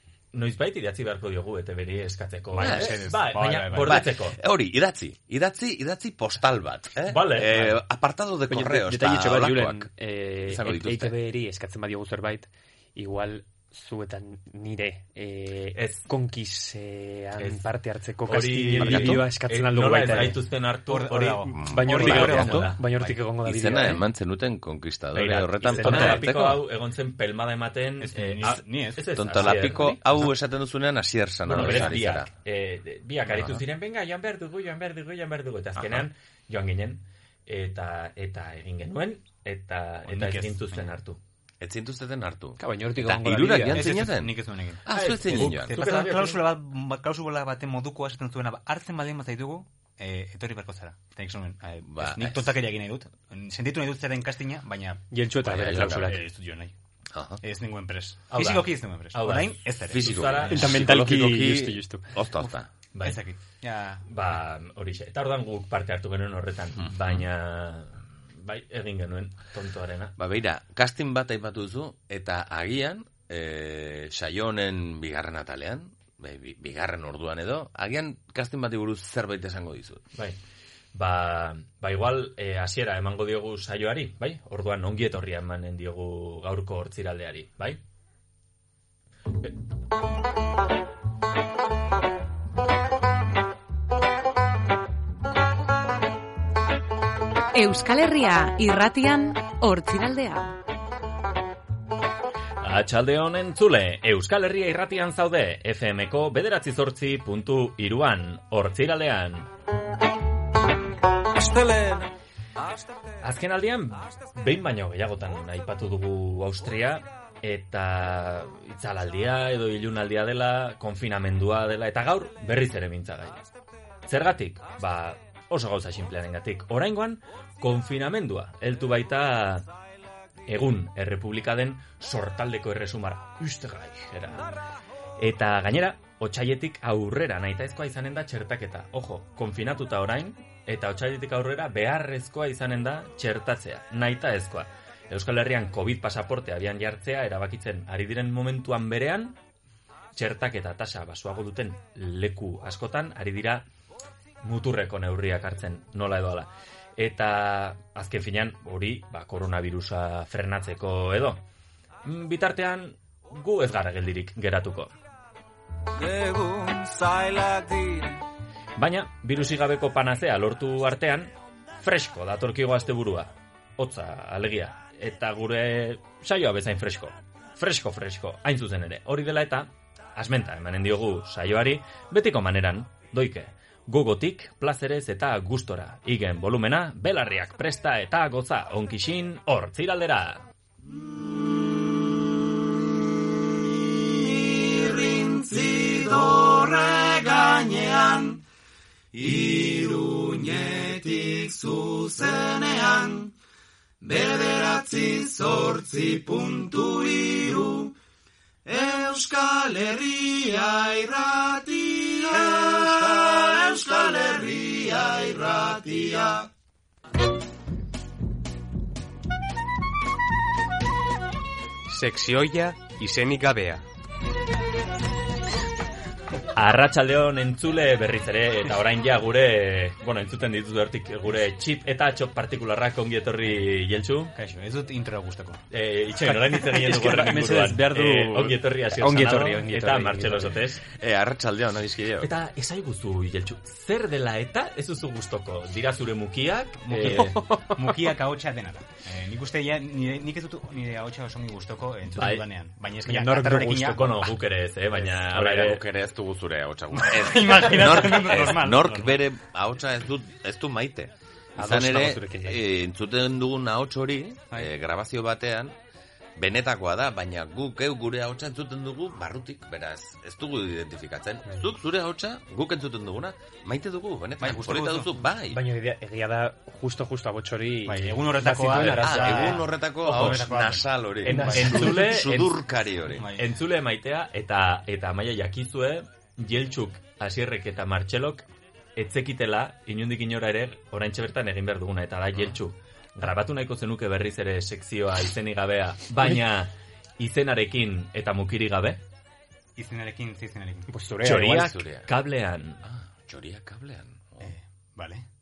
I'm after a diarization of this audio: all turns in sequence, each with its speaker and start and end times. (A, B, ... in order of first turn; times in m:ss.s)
0:00.3-0:04.4 A
0:02.5-0:04.0 B
0:02.6-0:03.0 C
0:03.8-0:09.9 C
0:07.1-0:07.7 A
0:08.5-0:20.4 D
0:10.4-0:11.2 C
0:15.8-0:16.1 A
0:18.3-0:22.8 A
0:18.7-0:19.3 C
0:20.9-0:23.0 B
0:21.5-0:22.5 C
0:21.7-0:24.0 D
0:23.4-0:26.6 C
0:25.2-0:30.2 A
0:25.6-0:26.3 D
0:28.0-0:29.1 B
0:29.1-0:32.3 C
0:31.5-0:41.2 A
0:33.3-0:33.6 C
0:35.8-0:36.0 C
0:40.1-0:40.9 B
0:41.6-0:45.8 C
0:42.6-0:44.0 D
0:43.7-0:55.0 B
0:44.9-0:46.4 A
0:51.8-0:52.6 C
0:55.1-0:56.2 D
0:55.4-0:56.2 C
0:56.0-0:56.7 B
0:57.1-0:57.4 C
0:57.4-1:00.2 B
0:58.3-1:00.7 A
0:59.9-1:02.7 C
1:00.5-1:02.1 D
1:02.9-1:03.2 A
1:03.0-1:04.1 B
1:04.1-1:10.2 A
1:06.8-1:07.2 C
1:10.2-1:20.0 C
1:21.0-1:27.8 A
1:37.5-1:40.5 E
1:42.6-1:49.5 A
1:51.4-1:52.0 A
1:53.2-2:03.4 A
2:04.1-2:09.7 A
2:10.5-2:14.5 A
2:15.2-2:29.4 A
2:30.2-2:33.7 A
2:34.4-2:41.4 A
2:42.0-2:45.0 A
2:46.0-2:48.1 F
2:48.8-3:10.5 A
3:11.0-3:18.4 F
3:19.1-3:23.3 F
3:24.0-3:27.9 F
3:28.7-3:36.5 F
3:41.9-3:43.5 B
3:46.6-3:54.3 A
3:54.3-3:55.6 B
3:55.7-4:00.8 A
3:56.2-4:00.6 D
4:01.0-4:02.3 C
4:02.2-4:07.4 A
4:06.8-4:14.3 B
4:12.1-4:12.5 A
4:13.1-4:14.0 D
4:13.5-4:15.8 A
4:15.3-4:25.7 C
4:16.9-4:19.2 B
4:21.6-4:22.6 D
4:26.4-4:35.6 C
4:34.4-4:35.1 B
4:35.5-4:39.6 D
4:37.9-4:41.9 B
4:38.8-4:39.3 A
4:38.9-4:43.3 C
4:41.3-4:42.6 A
4:43.1-4:43.5 B
4:43.4-4:48.4 A
4:49.0-4:59.0 A
4:59.8-5:00.9 B
5:00.9-5:01.8 D
5:01.2-5:02.8 A
5:01.5-5:02.1 C
5:02.8-5:04.5 C
5:04.4-5:05.2 B